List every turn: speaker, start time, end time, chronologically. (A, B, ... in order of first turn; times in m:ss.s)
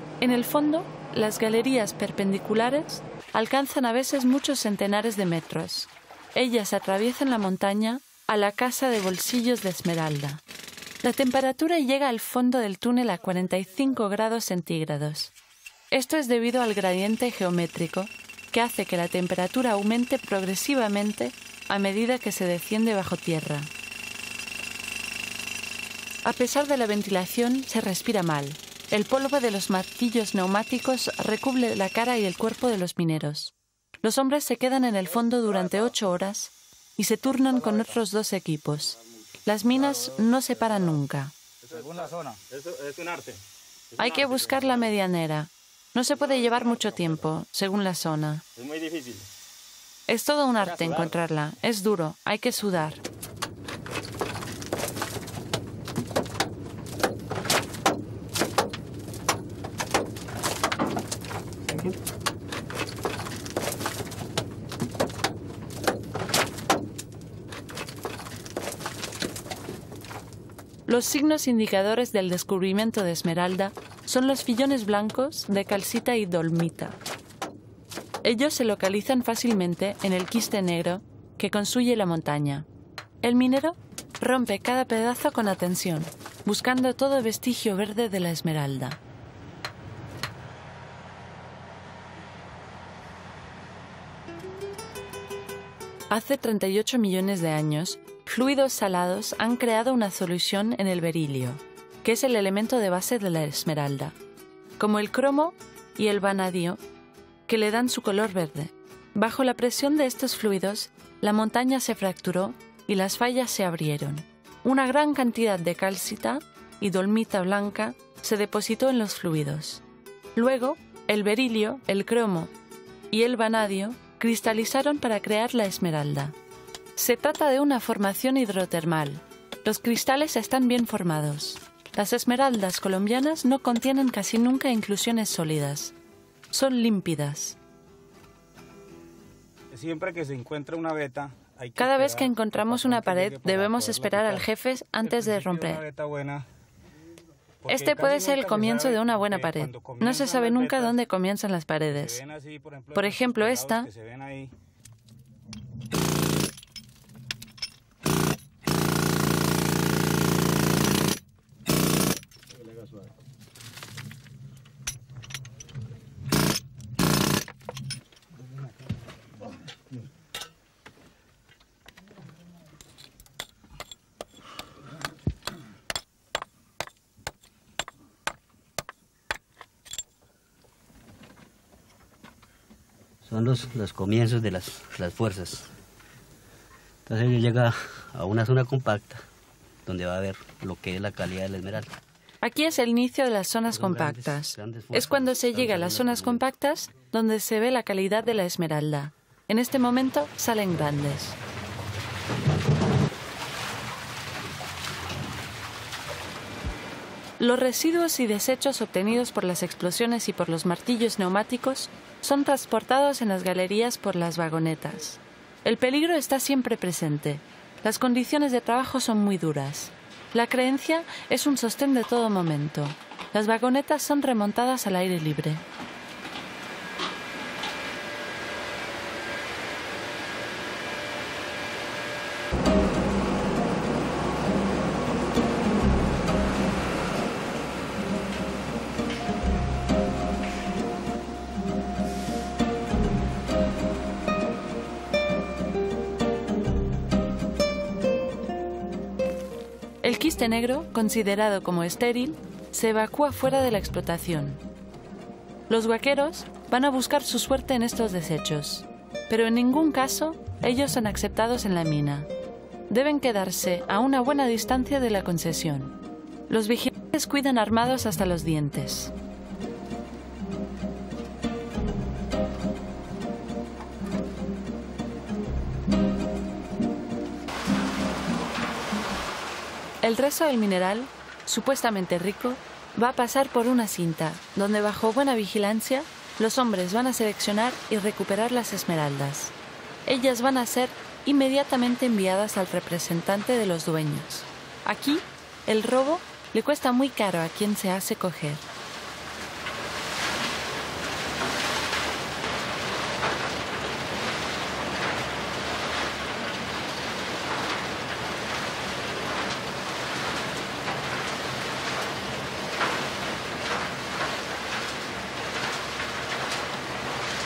0:00.2-0:10.4 A
0:11.0-0:15.3 A
0:15.9-0:23.7 A
0:26.2-0:41.3 A
0:41.6-0:43.4 B
0:43.9-0:44.7 B
0:44.0-0:48.4 A
0:48.6-0:49.2 B
0:50.1-0:53.0 A
0:50.6-0:51.1 B
1:10.9-1:17.0 A
1:18.2-1:22.6 A
1:23.2-1:29.0 A
1:36.1-1:44.2 A
1:44.8-1:46.8 A
1:47.5-1:59.8 A
2:00.4-2:02.5 A
2:03.1-2:06.3 A
2:07.0-2:15.9 A
2:16.5-2:17.6 A
2:19.7-2:24.5 B
2:21.8-2:25.8 A
2:25.0-2:26.4 B
2:27.6-2:31.0 B
2:27.7-2:32.2 A
2:31.9-2:34.5 B
2:32.9-2:33.9 A
3:03.2-3:05.7 C
3:07.0-3:09.2 C
3:09.8-3:11.9 C
3:12.4-3:21.4 A
3:13.7-3:16.5 C
3:27.4-3:45.6 A
4:10.0-4:14.6 A
4:15.7-4:22.3 A
4:22.9-4:25.9 A
4:26.5-4:29.1 A
4:40.0-4:49.5 A
4:50.0-4:58.6 A